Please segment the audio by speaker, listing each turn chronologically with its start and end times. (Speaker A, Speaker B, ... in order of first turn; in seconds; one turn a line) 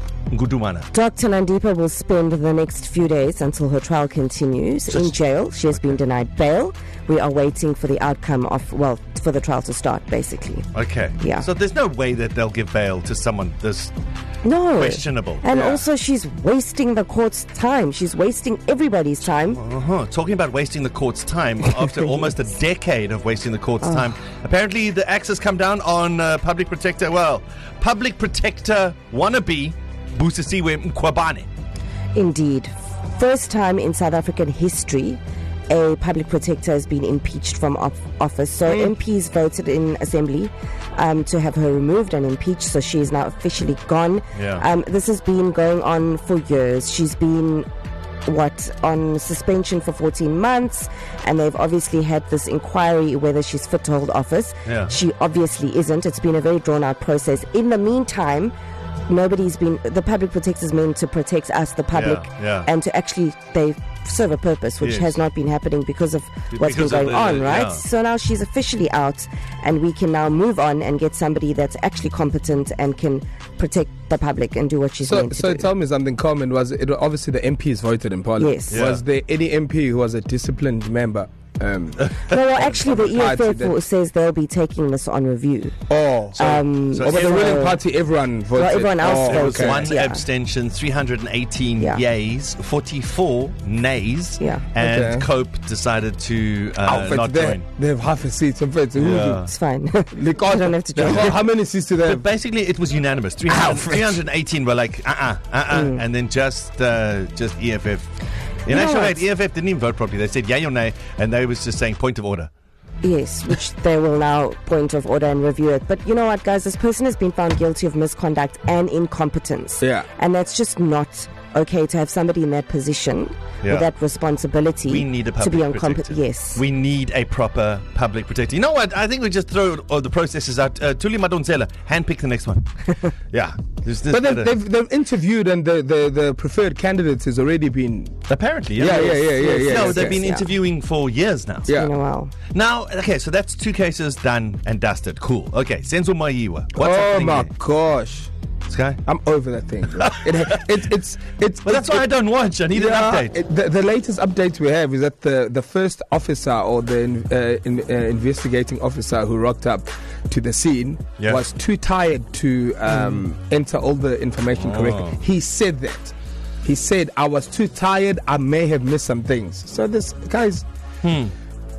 Speaker A: 0.3-0.9
Speaker B: 0.9-10.7
Speaker A: 5.7-6.0
Speaker A: 10.7-13.9
Speaker B: 11.2-11.4
Speaker B: 14.4-19.6
Speaker A: 14.8-15.8
Speaker A: 19.5-31.5
Speaker B: 32.1-47.6
Speaker A: 44.3-44.6
Speaker B: 48.2-58.5
Speaker A: 54.6-54.9
Speaker B: 59.1-75.7
Speaker A: 61.9-62.7
Speaker A: 64.8-65.2
Speaker A: 66.5-67.8
Speaker C: 75.1-83.8
Speaker B: 78.4-78.8
Speaker A: 78.7-79.0
Speaker B: 82.3-85.8
Speaker C: 85.9-89.9
Speaker B: 86.3-87.8
Speaker A: 86.4-87.7
Speaker B: 88.5-90.2
Speaker A: 89.0-97.7
Speaker B: 94.4-94.7
Speaker C: 94.8-95.3
Speaker C: 96.8-99.5
Speaker A: 99.0-99.5
Speaker B: 99.4-101.4
Speaker C: 100.1-102.2
Speaker A: 101.0-101.3
Speaker A: 102.0-108.1
Speaker C: 103.5-104.2
Speaker B: 105.7-106.0
Speaker A: 108.7-112.5
Speaker B: 108.7-109.2
Speaker B: 113.0-126.6
Speaker C: 119.8-120.1
Speaker A: 124.9-132.7
Speaker A: 133.3-134.5
Speaker C: 134.1-138.2
Speaker A: 138.3-141.7
Speaker C: 138.8-140.2
Speaker B: 138.8-140.5
Speaker C: 141.7-141.9
Speaker B: 141.7-142.3
Speaker A: 142.5-147.5
Speaker C: 146.8-148.3
Speaker A: 148.7-149.0
Speaker C: 149.1-152.1
Speaker A: 151.6-153.3
Speaker C: 152.7-170.6
Speaker A: 164.5-165.2
Speaker A: 171.0-171.3